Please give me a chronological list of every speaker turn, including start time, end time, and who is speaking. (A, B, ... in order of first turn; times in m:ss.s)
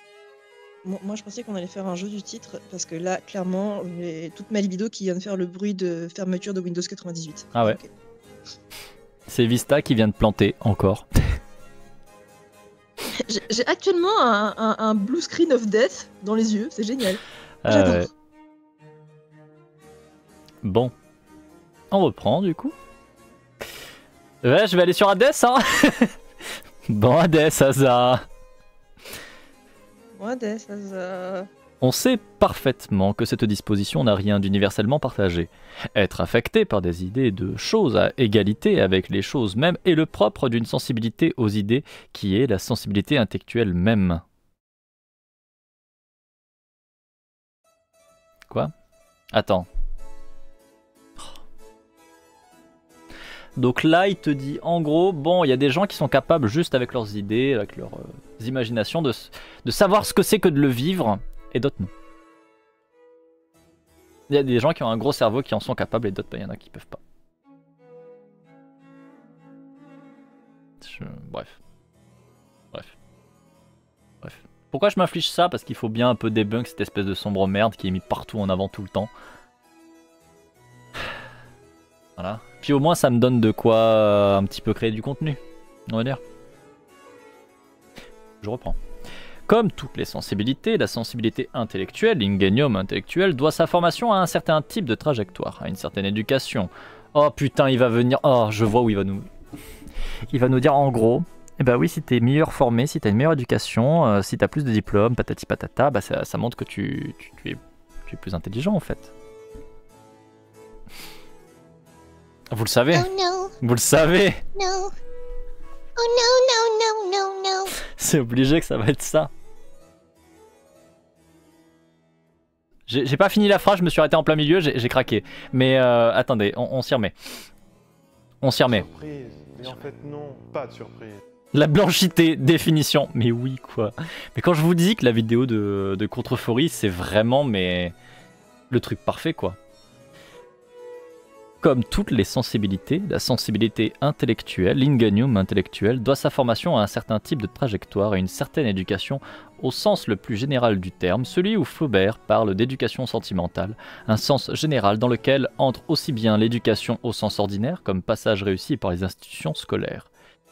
0:00.8-0:07.9 A
0:09.3-0:11.1 B
0:13.2-0:18.1 A
0:17.6-0:18.1 B
0:20.6-0:20.9 B
0:21.9-0:22.7 B
0:24.4-0:26.1 B
0:26.9-0:28.2 B
0:30.2-0:31.5 A
0:31.8-0:44.2 B
0:49.3-0:49.7 B
0:53.6-1:01.9 B
1:04.3-1:07.0 B
1:10.8-1:11.6 B
1:14.2-1:19.1 B
1:22.2-1:26.2 B
1:28.4-1:28.8 B
1:29.5-1:39.3 B
1:40.3-1:49.1 B
1:52.5-1:53.1 B
1:52.9-1:53.5 C
1:53.6-1:54.4 B
1:54.6-1:54.9 C
1:56.0-1:57.7 C
1:57.9-1:59.3 B
2:02.9-2:07.2 B
2:08.4-2:08.9 B
2:08.7-2:11.2 D
2:11.5-2:18.0 B
2:18.7-2:19.6 B
2:21.6-2:40.1 B